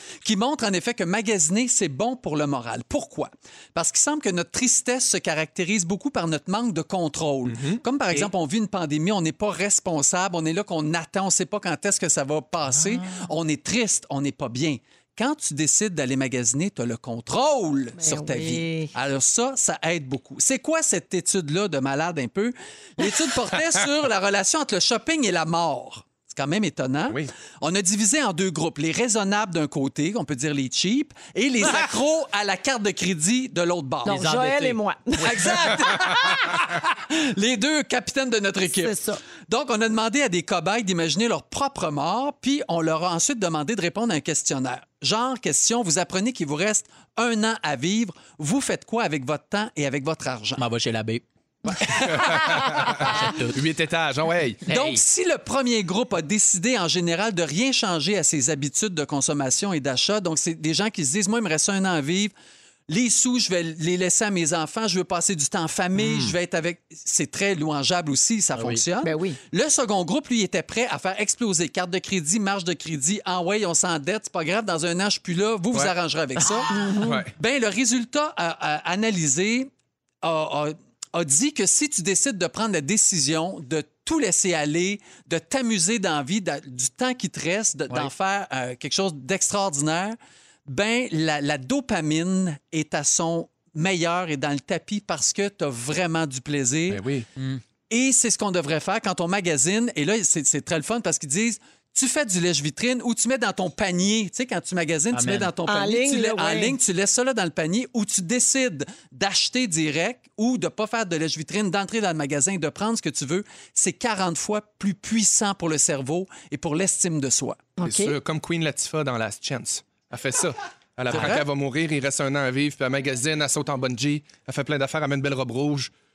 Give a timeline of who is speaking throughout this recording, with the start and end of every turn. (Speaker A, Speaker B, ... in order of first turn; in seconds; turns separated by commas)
Speaker A: 0.2-34.5, Speaker B: 7.5-7.8, Speaker C: 18.0-18.9, Speaker C: 34.0-36.5, Speaker D: 34.1-34.7, Speaker A: 35.2-50.6, Speaker C: 38.7-39.2, Speaker D: 50.6-51.2, Speaker A: 51.6-53.2, Speaker D: 51.9-53.6, Speaker B: 52.1-54.6, Speaker D: 54.7-55.0, Speaker A: 54.7-62.3, Speaker A: 62.9-79.7, Speaker B: 66.0-66.3, Speaker D: 68.5-68.8, Speaker C: 69.0-69.4, Speaker C: 76.7-77.3, Speaker B: 77.0-77.3, Speaker A: 80.2-97.0, Speaker B: 96.9-97.3, Speaker A: 97.9-117.6, Speaker D: 105.1-105.5, Speaker C: 105.7-106.8, Speaker C: 117.8-118.2, Speaker B: 117.8-125.9, Speaker A: 121.1-121.5